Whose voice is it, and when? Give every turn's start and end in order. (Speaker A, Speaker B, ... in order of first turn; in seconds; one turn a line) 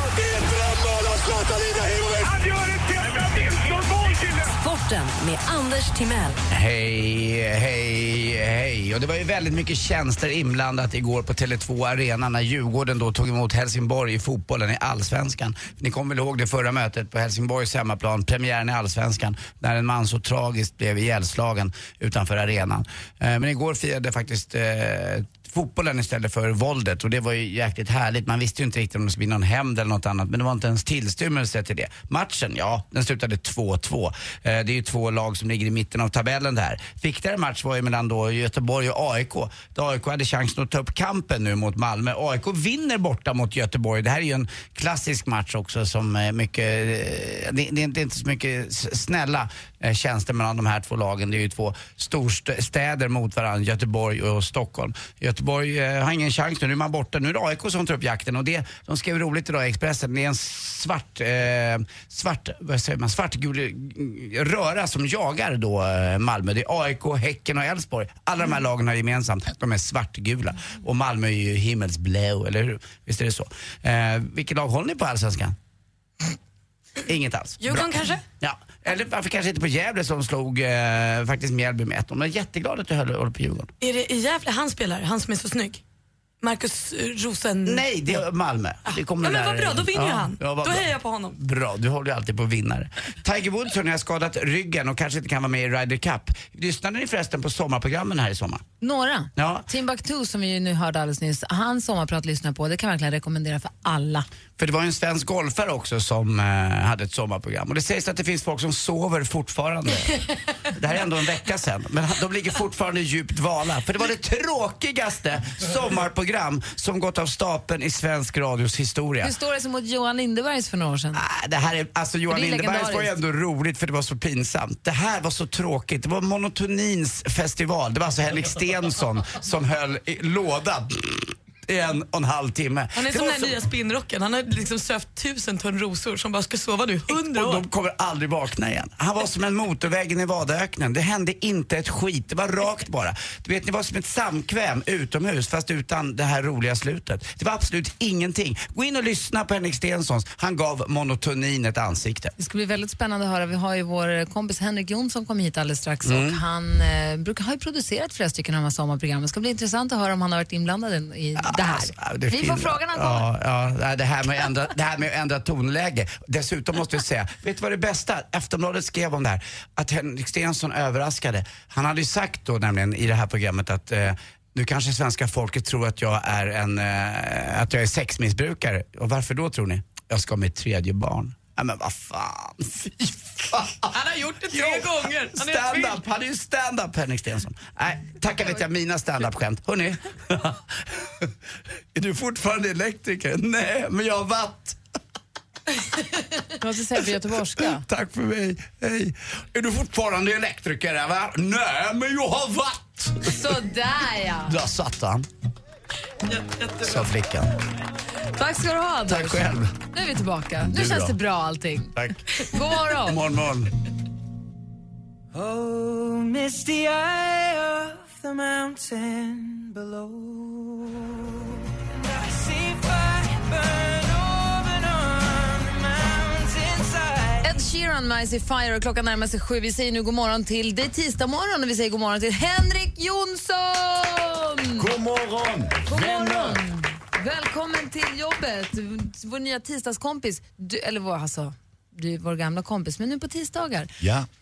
Speaker A: 0.8-4.0
Speaker B: 4.3-6.4
Speaker A: 6.5-75.5
Speaker A: 77.0-83.7
Speaker C: 77.6-78.2
Speaker C: 83.8-85.8
Speaker C: 86.4-88.2
Speaker A: 87.6-98.6
Speaker C: 88.9-91.3
Speaker D: 98.8-104.2
Speaker A: 99.3-99.7
Speaker A: 104.6-119.3
Speaker D: 119.2-121.2
Speaker A: 121.1-133.6
Speaker D: 122.3-123.1
Speaker C: 132.9-137.6
Speaker A: 137.2-152.3
Speaker D: 152.4-163.3
Speaker A: 156.1-156.4
Speaker A: 161.4-184.0
Speaker C: 183.9-186.0
Speaker A: 184.5-191.3
Speaker A: 191.9-194.8
Speaker D: 196.6-197.8
Speaker A: 197.6-203.4
Speaker D: 203.2-204.6
Speaker A: 204.5-205.3
Speaker C: 206.3-207.1
Speaker A: 206.8-207.5
Speaker D: 208.3-213.2
Speaker A: 209.1-209.7
Speaker E: 210.6-211.2
Speaker A: 213.0-213.7
Speaker F: 215.3-227.5
Speaker D: 227.4-234.8
Speaker E: 234.7-236.7
Speaker D: 235.8-243.9
Speaker E: 244.0-244.3